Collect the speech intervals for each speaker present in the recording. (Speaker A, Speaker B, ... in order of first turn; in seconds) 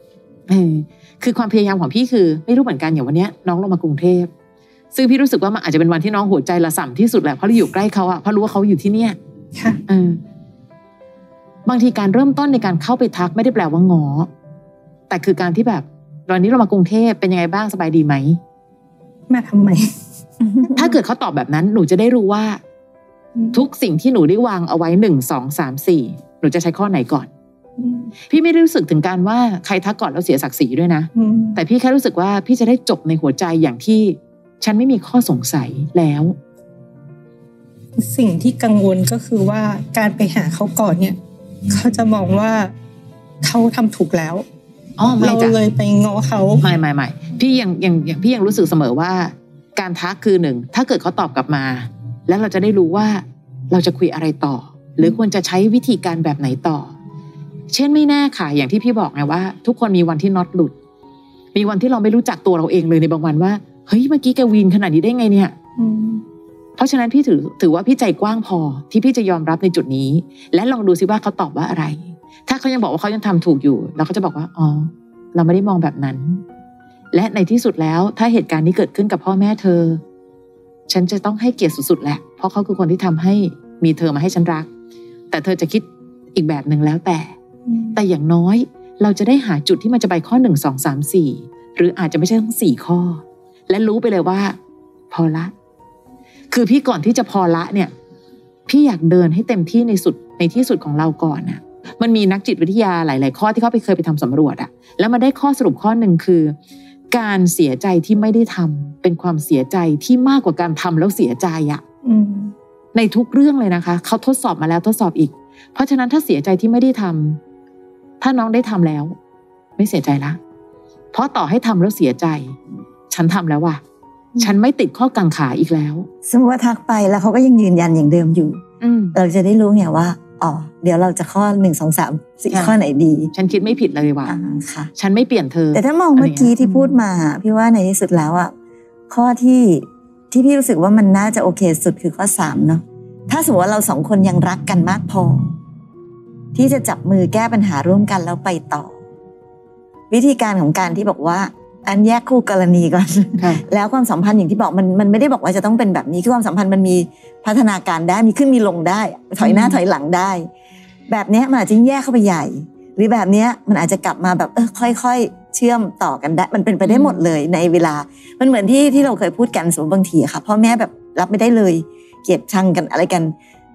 Speaker A: 0.5-4.3, 4.9-9.2, 9.9-10.2, 11.7-14.3, 15.1-18.4, 20.7-22.6, 23.5-27.3, 28.3-36.4, 45.0-45.6, 46.6-57.0, 57.7-60.7, 61.5-65.5, 66.8-76.4, 77.1-80.0, 80.9-84.7, 85.3-87.3, 87.9-94.5, 95.1-95.5, 96.5-97.9, 98.7-106.5, 107.1-111.8, 112.9-117.4, 118.2-119.1, 119.8-120.4, 121.1-122.5, 123.1-123.8, 124.4-126.1, 128.8-129.2, 132.5-132.8, 133.3-134.3, 134.9-137.0, 153.4-153.6, 159.4-159.8, 166.8-167.2
Speaker B: 19.3-19.9, 23.4-23.6, 27.8-28.1, 31.1-31.6, 38.0-41.2, 41.7-42.7, 43.4-44.4, 45.2-46.6, 65.8-66.2, 87.7-88.0, 112.0-112.5
Speaker C: 126.2-128.6, 129.1-133.3, 134.2-134.9, 135.7-138.5, 139.1-145.5, 146.5-148.9, 150.1-160.5, 161.1-173.3